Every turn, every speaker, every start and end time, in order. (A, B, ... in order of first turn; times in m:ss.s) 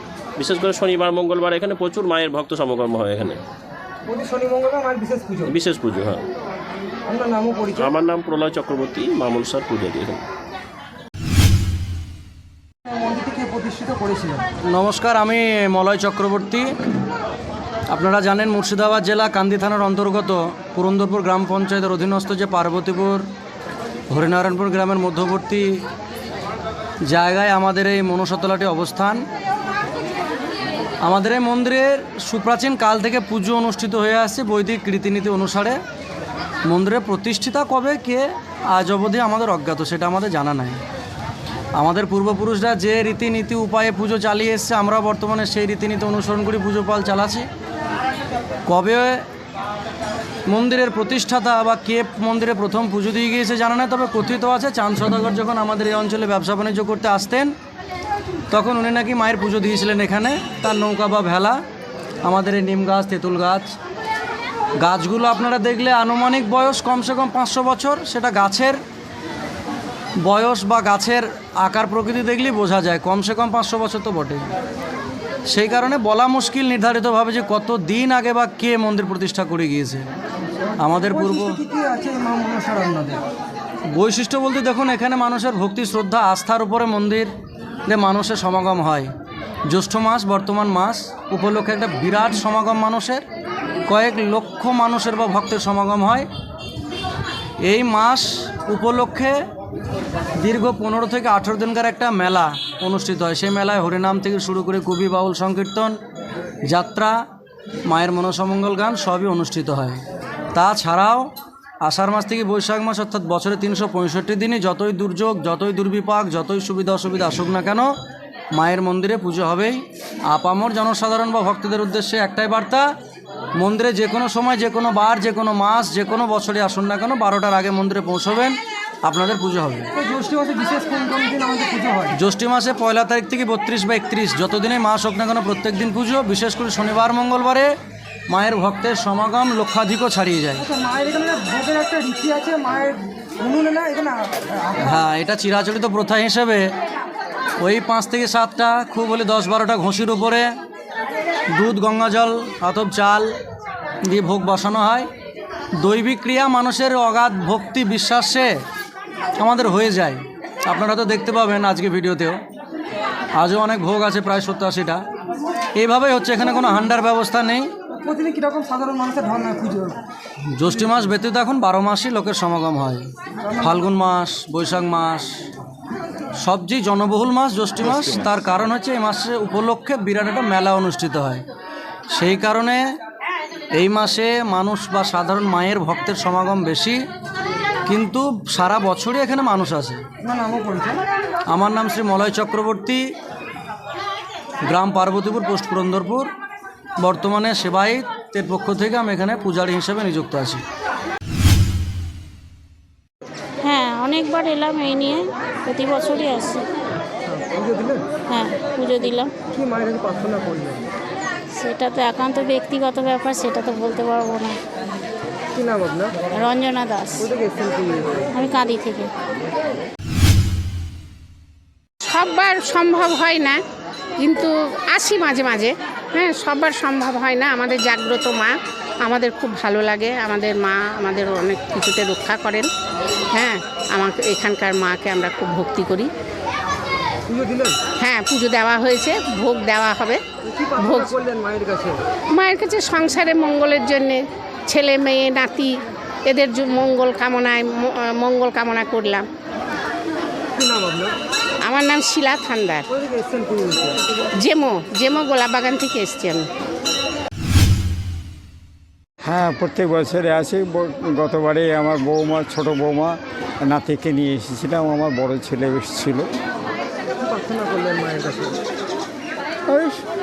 0:00.4-0:03.4 A
0:04.1-0:05.5 B
0:05.5-0:06.2 A
0:07.1-0:07.9 B
0:07.8-0:10.2 A
0:12.8-0:14.4 B
0:14.6-0:16.7 C
0:17.9-0:23.2 C
0:24.1-0:25.8 C
0:27.0-0:29.2 C
0:31.0-0:35.8 C
0:36.6-0:40.8 C
0:41.7-0:47.4 C
0:48.6-0:49.2 C
0:50.5-0:57.5 C
0:58.5-1:01.6 C
1:02.2-1:03.7 C
1:04.8-1:08.8 C
1:10.2-1:14.5 C
1:15.5-1:20.0 C
1:20.8-1:21.6 C
1:20.8-1:23.2 B
1:23.9-1:27.3 C
1:27.9-1:29.1 C
1:29.7-1:33.2 C
1:33.9-1:36.3 C
1:37.6-1:39.4 C
1:40.4-1:45.9 C
1:46.7-1:47.1 C
1:47.8-1:50.0 C
1:50.5-1:51.3 C
1:51.8-1:57.9 C
1:58.5-2:02.9 C
2:03.6-2:09.9 C
2:09.9-2:12.1 B
2:12.2-2:17.7 C
2:18.3-2:20.6 C
2:20.6-2:25.0 B
2:24.8-2:26.6 C
2:27.6-2:30.5 C
2:31.5-2:33.3 C
2:34.0-2:35.1 C
2:35.8-2:38.5 C
2:39.4-2:42.4 C
2:43.4-2:45.0 C
2:45.8-2:47.7 C
2:48.0-2:50.0 B
2:50.4-2:53.1 C
2:53.4-2:53.8 B
2:53.6-2:55.3 C
2:56.4-3:01.4 C
3:02.1-3:02.8 C
3:03.8-3:07.0 C
3:07.9-3:10.0 C
3:10.2-3:11.0 B
3:11.5-3:13.0 C
3:14.6-3:16.3 C
3:17.0-3:20.6 C
3:23.6-3:26.6 D
3:27.2-3:28.0 B
3:28.3-3:29.3 D
3:29.5-3:30.9 B
3:31.5-3:34.6 D
3:35.5-3:36.1 B
3:36.3-3:37.3 D
3:37.2-3:38.3 B
3:38.3-3:39.1 D
3:42.0-3:43.6 E
3:44.2-3:52.7 E
3:53.3-3:56.1 E
3:57.3-3:57.8 B
3:57.9-4:00.2 E
4:00.4-4:02.0 B
4:00.8-4:01.1 E
4:02.3-4:09.3 E
4:10.5-4:11.1 B
4:11.6-4:12.8 E
4:12.9-4:14.0 B
4:14.4-4:16.5 E
4:19.2-4:26.3 F
4:27.1-4:28.6 B
4:29.7-4:30.0 F